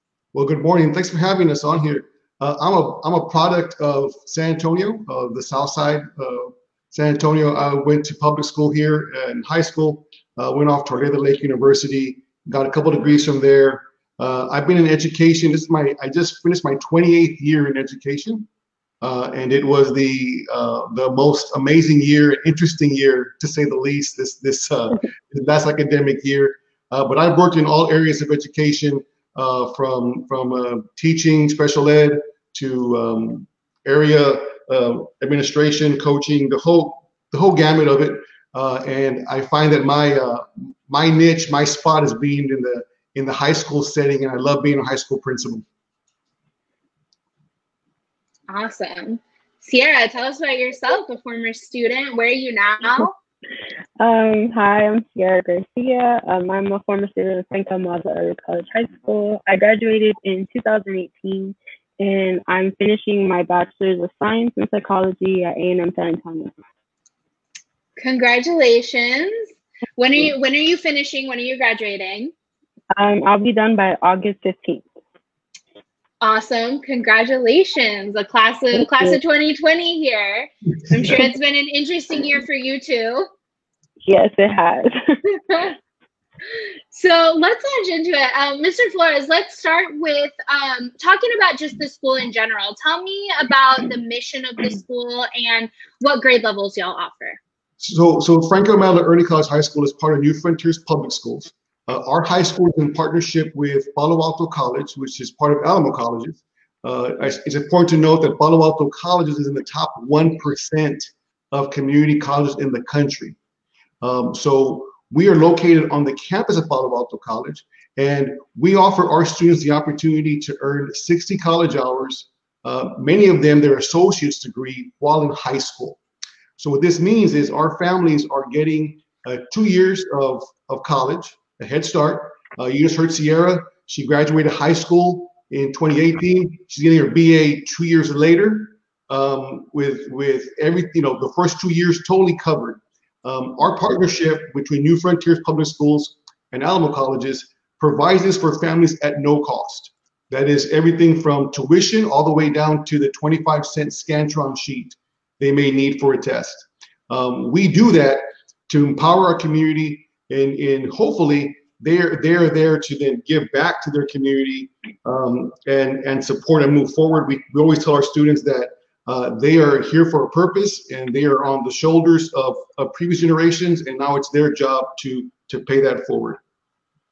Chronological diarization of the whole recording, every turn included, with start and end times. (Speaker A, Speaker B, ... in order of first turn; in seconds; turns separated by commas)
Speaker A: 0.3-18.5, Speaker A: 19.0-45.6, Speaker B: 48.5-53.2, Speaker C: 54.0-66.5, Speaker B: 68.0-72.3, Speaker C: 72.9-74.8, Speaker B: 76.2-83.2, Speaker C: 78.8-79.2, Speaker C: 84.0-85.2, Speaker B: 85.5-85.7, Speaker B: 86.9-97.4, Speaker A: 97.8-113.4, Speaker A: 114.0-126.0, Speaker A: 126.6-176.4